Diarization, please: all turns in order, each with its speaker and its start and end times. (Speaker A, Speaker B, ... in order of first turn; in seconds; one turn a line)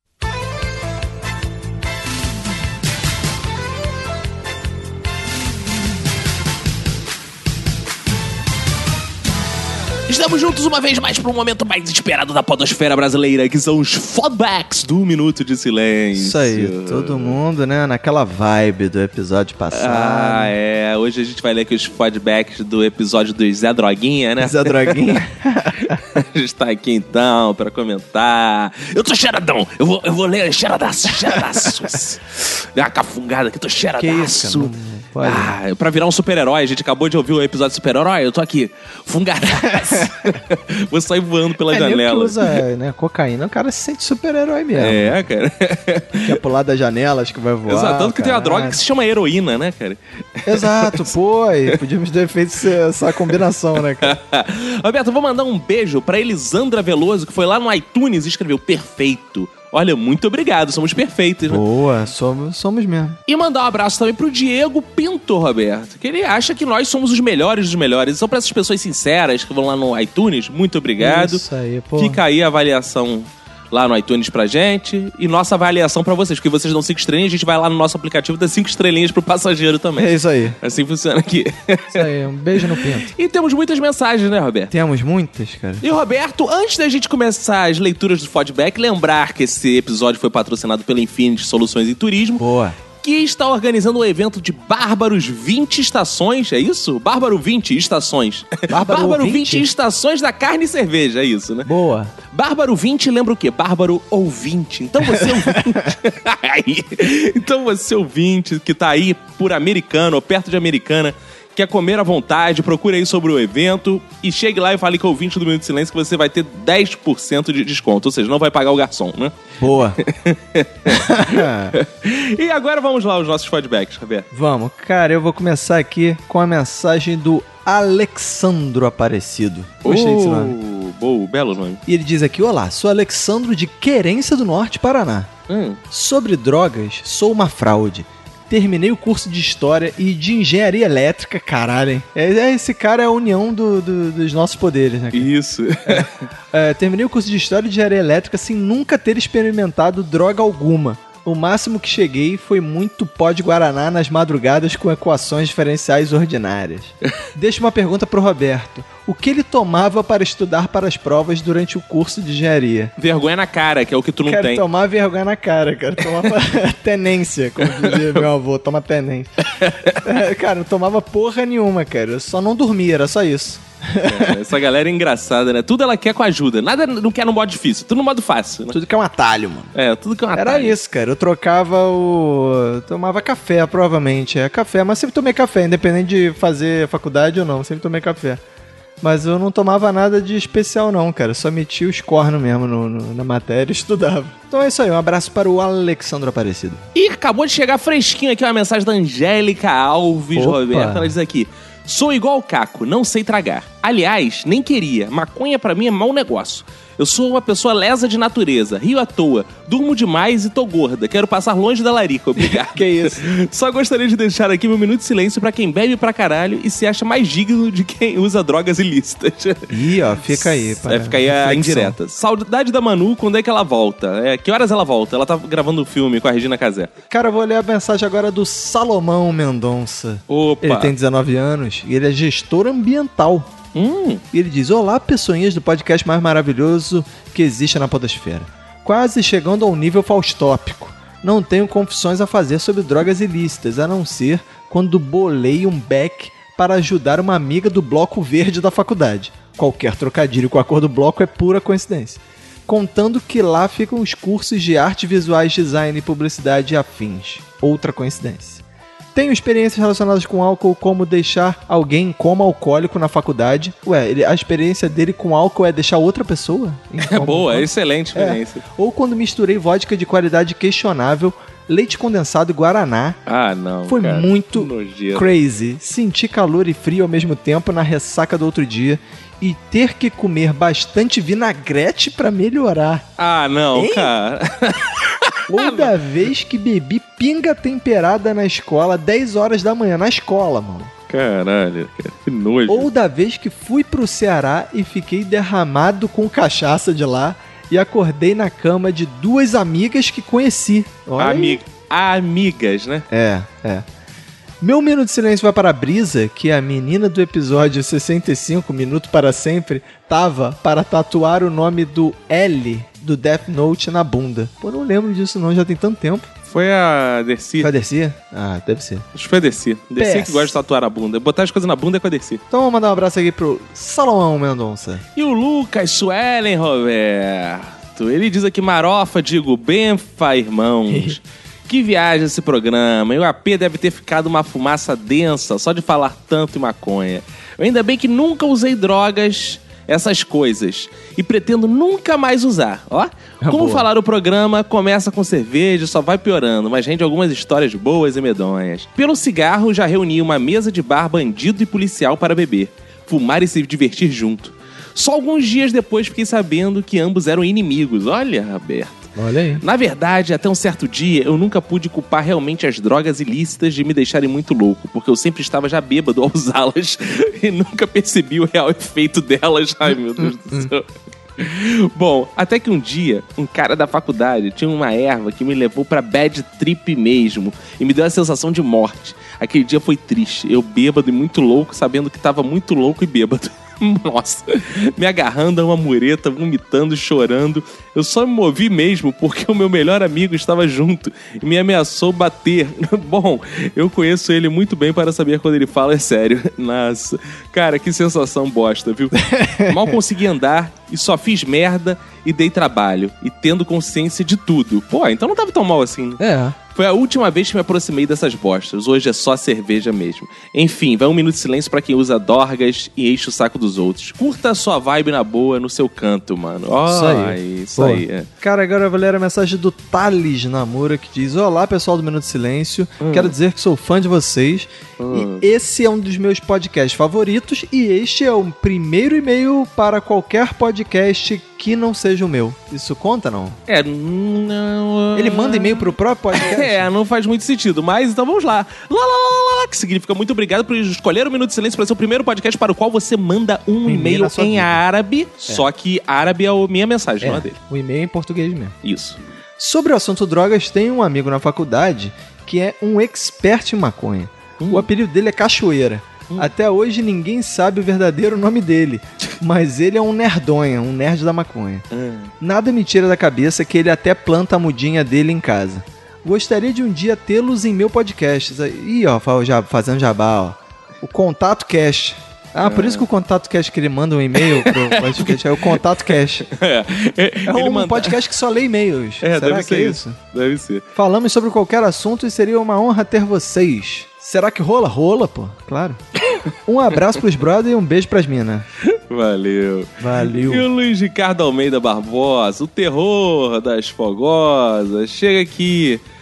Speaker A: 10.1-17.4
Speaker B: 16.1-20.5
Speaker A: 19.7-25.0
Speaker B: 24.4-26.0
Speaker A: 25.9-42.4
Speaker B: 34.0-35.5
Speaker B: 39.6-40.1
Speaker B: 41.7-45.2
Speaker A: 44.8-46.4
Speaker B: 46.2-48.8
Speaker A: 47.7-51.1
Speaker B: 50.5-54.1
Speaker A: 54.0-61.6
Speaker B: 61.4-63.2
Speaker A: 63.3-71.4
Speaker B: 71.0-72.2
Speaker A: 72.0-82.0
Speaker B: 80.0-80.6
Speaker B: 81.9-83.1
Speaker A: 83.1-84.7
Speaker B: 84.7-85.8
Speaker A: 85.8-92.4
Speaker B: 92.4-92.8
Speaker A: 93.0-101.7
Speaker B: 98.7-99.7
Speaker B: 101.6-102.1
Speaker A: 102.3-119.3
Speaker B: 105.2-105.7
Speaker B: 119.6-120.0
Speaker A: 120.0-124.3
Speaker B: 120.9-121.7
Speaker B: 124.3-130.5
Speaker A: 129.8-131.8
Speaker B: 131.9-135.3
Speaker A: 135.5-135.8
Speaker B: 135.9-145.3
Speaker A: 145.1-146.2
Speaker B: 145.8-162.9
Speaker A: 163.0-164.6
Speaker B: 164.3-169.3
Speaker A: 167.6-168.2
Speaker A: 169.6-170.0
Speaker B: 169.9-174.3
Speaker A: 174.0-178.8
Speaker B: 178.7-179.7
Speaker A: 179.7-180.8
Speaker B: 180.3-188.4
Speaker B: 189.0-196.8
Speaker A: 196.9-226.9
Speaker B: 200.3-201.1
Speaker B: 212.4-213.3
Speaker B: 219.7-222.0
Speaker B: 227.1-233.5
Speaker A: 230.3-230.9
Speaker A: 233.7-234.2
Speaker B: 234.3-258.6
Speaker B: 259.1-273.2
Speaker A: 267.0-268.6
Speaker A: 273.3-275.4
Speaker B: 273.9-283.0
Speaker A: 283.2-285.9
Speaker B: 283.7-284.1
Speaker B: 285.5-290.9
Speaker A: 291.1-292.9
Speaker B: 292.7-301.6
Speaker A: 301.2-303.1
Speaker B: 303.1-303.8
Speaker B: 304.6-316.3
Speaker A: 316.5-317.7
Speaker B: 317.6-319.0
Speaker A: 319.1-322.4
Speaker B: 320.0-320.5
Speaker B: 322.5-325.0
Speaker A: 325.1-406.2
Speaker B: 330.9-331.2
Speaker B: 343.4-343.8
Speaker B: 359.1-359.6
Speaker B: 370.2-370.7
Speaker B: 399.2-399.8
Speaker B: 406.2-406.6
Speaker A: 406.7-418.3
Speaker B: 416.9-433.6
Speaker A: 423.0-423.3
Speaker A: 425.0-425.4
Speaker A: 433.7-447.6
Speaker B: 435.1-436.9
Speaker B: 443.8-444.8
Speaker B: 447.2-448.7
Speaker A: 448.8-449.2
Speaker B: 449.6-461.8
Speaker A: 454.6-454.9
Speaker A: 461.9-462.3
Speaker B: 462.4-476.4
Speaker A: 472.6-473.1
Speaker A: 474.4-475.8
Speaker A: 476.4-478.2
Speaker B: 477.4-480.2
Speaker A: 479.2-480.9
Speaker B: 480.9-486.0
Speaker B: 486.7-488.6
Speaker A: 488.9-496.0
Speaker B: 490.0-490.6